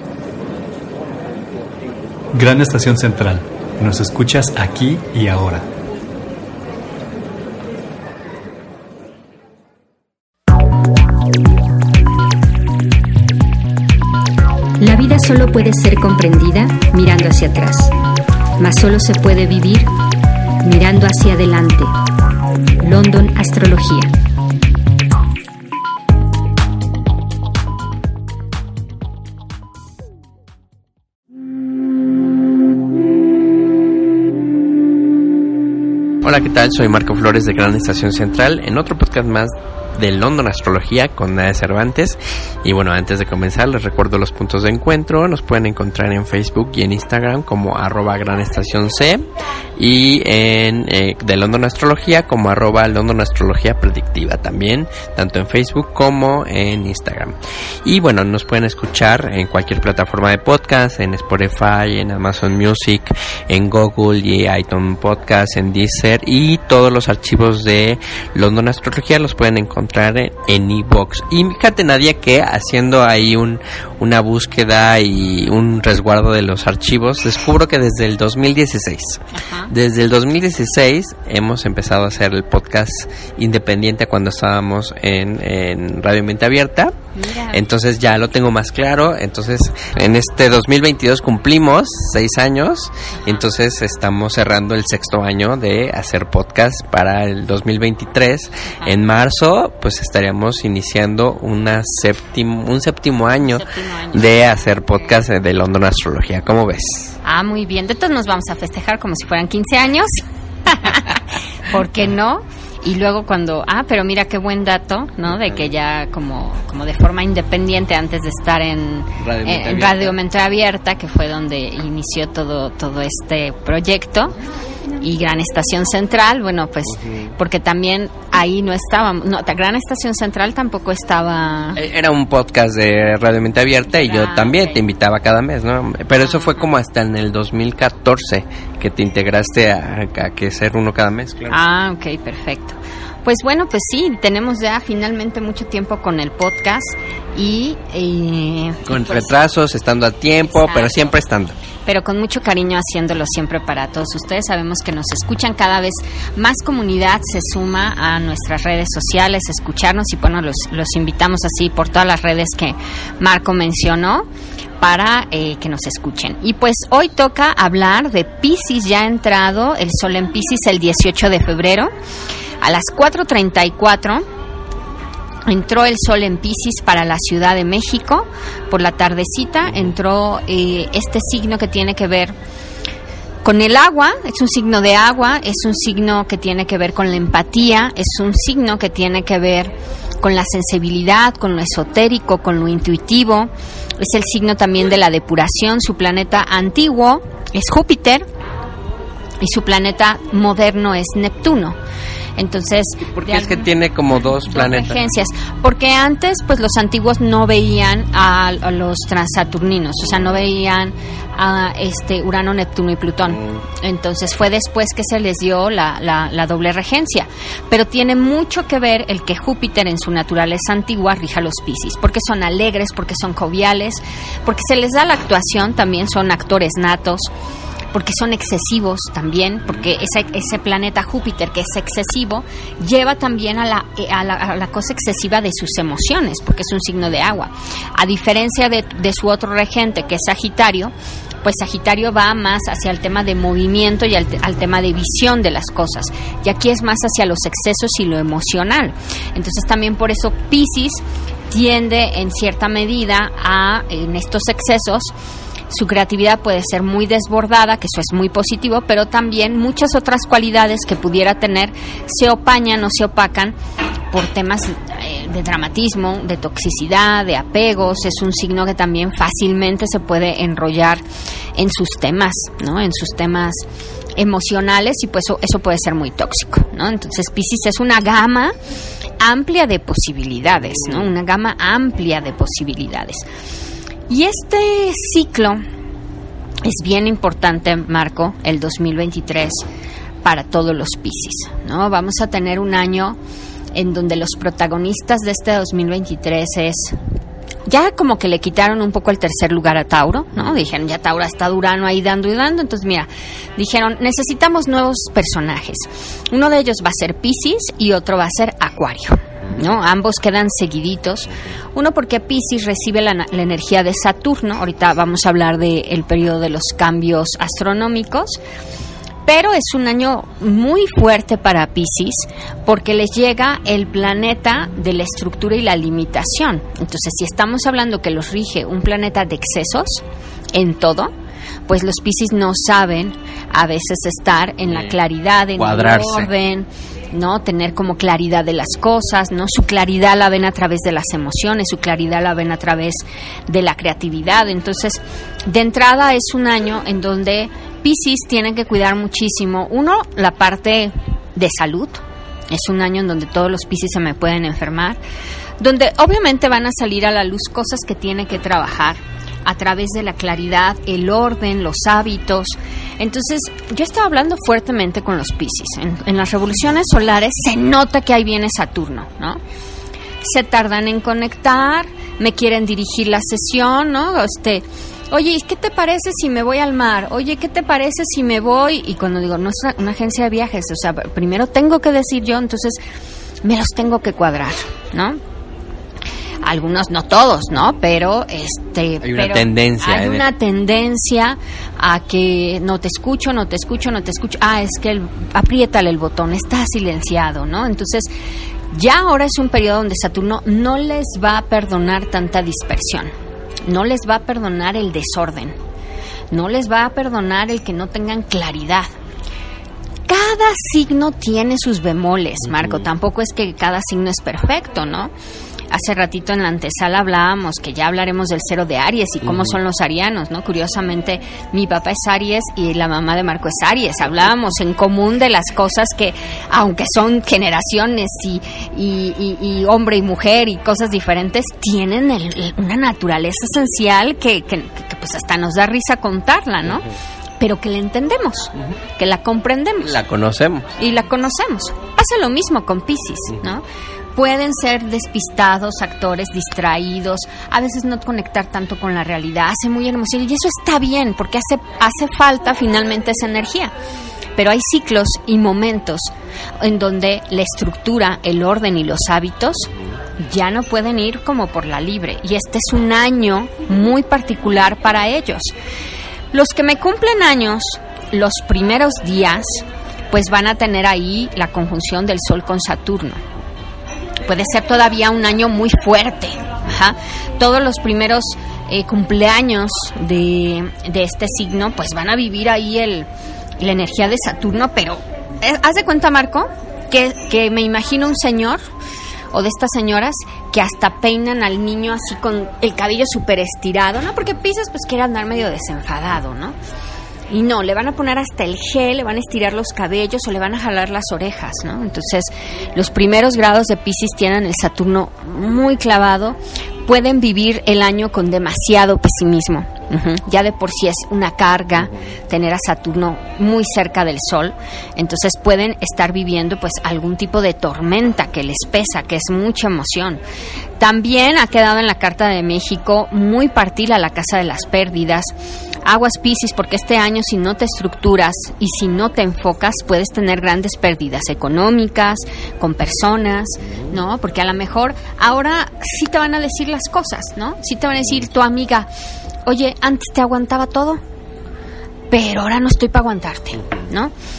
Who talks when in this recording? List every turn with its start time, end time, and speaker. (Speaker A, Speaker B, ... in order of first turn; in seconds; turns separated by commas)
Speaker A: 2.3-5.7, Speaker B: 14.8-17.9, Speaker B: 18.6-19.9, Speaker B: 20.6-21.9, Speaker B: 22.8-24.1, Speaker C: 36.2-87.0, Speaker B: 79.3-79.7, Speaker B: 87.2-87.6, Speaker C: 87.5-107.2, Speaker B: 103.5-104.3, Speaker B: 107.2-124.4, Speaker C: 119.2-120.2, Speaker B: 125.0-131.8, Speaker C: 126.9-127.3, Speaker C: 131.8-141.6, Speaker B: 133.9-134.8, Speaker B: 136.2-136.7, Speaker B: 141.5-149.3, Speaker C: 148.9-151.6, Speaker B: 150.4-151.2, Speaker B: 151.9-164.3, Speaker B: 164.8-171.9, Speaker B: 172.6-174.2, Speaker B: 175.5-182.3, Speaker B: 183.4-198.2, Speaker B: 199.4-201.8, Speaker B: 202.4-227.3, Speaker C: 203.1-205.0, Speaker B: 227.9-255.1, Speaker B: 255.7-263.6, Speaker B: 264.1-271.0, Speaker B: 271.6-273.6, Speaker B: 274.2-278.6, Speaker B: 279.2-283.3, Speaker B: 284.1-285.6, Speaker B: 286.6-289.7, Speaker B: 290.2-293.2, Speaker B: 293.7-297.0, Speaker B: 297.7-318.4, Speaker B: 319.3-330.0, Speaker B: 330.5-331.1, Speaker B: 331.7-355.0, Speaker C: 334.7-334.9, Speaker C: 335.6-336.3, Speaker B: 355.6-369.4, Speaker B: 370.2-382.8, Speaker B: 383.4-385.2, Speaker B: 386.4-398.1, Speaker C: 389.0-390.3, Speaker B: 398.7-403.1, Speaker B: 403.7-405.6, Speaker B: 406.3-408.9, Speaker B: 410.1-415.1, Speaker B: 415.7-436.9, Speaker C: 419.3-419.6, Speaker B: 437.4-440.0, Speaker C: 439.8-440.7, Speaker B: 440.8-443.6, Speaker B: 444.1-453.7, Speaker B: 454.4-465.5, Speaker B: 466.3-473.2, Speaker B: 474.3-483.1, Speaker B: 483.6-488.6, Speaker B: 489.3-496.6, Speaker B: 497.3-520.2, Speaker B: 520.8-525.3, Speaker B: 525.9-538.9, Speaker B: 539.5-541.0, Speaker B: 542.1-544.1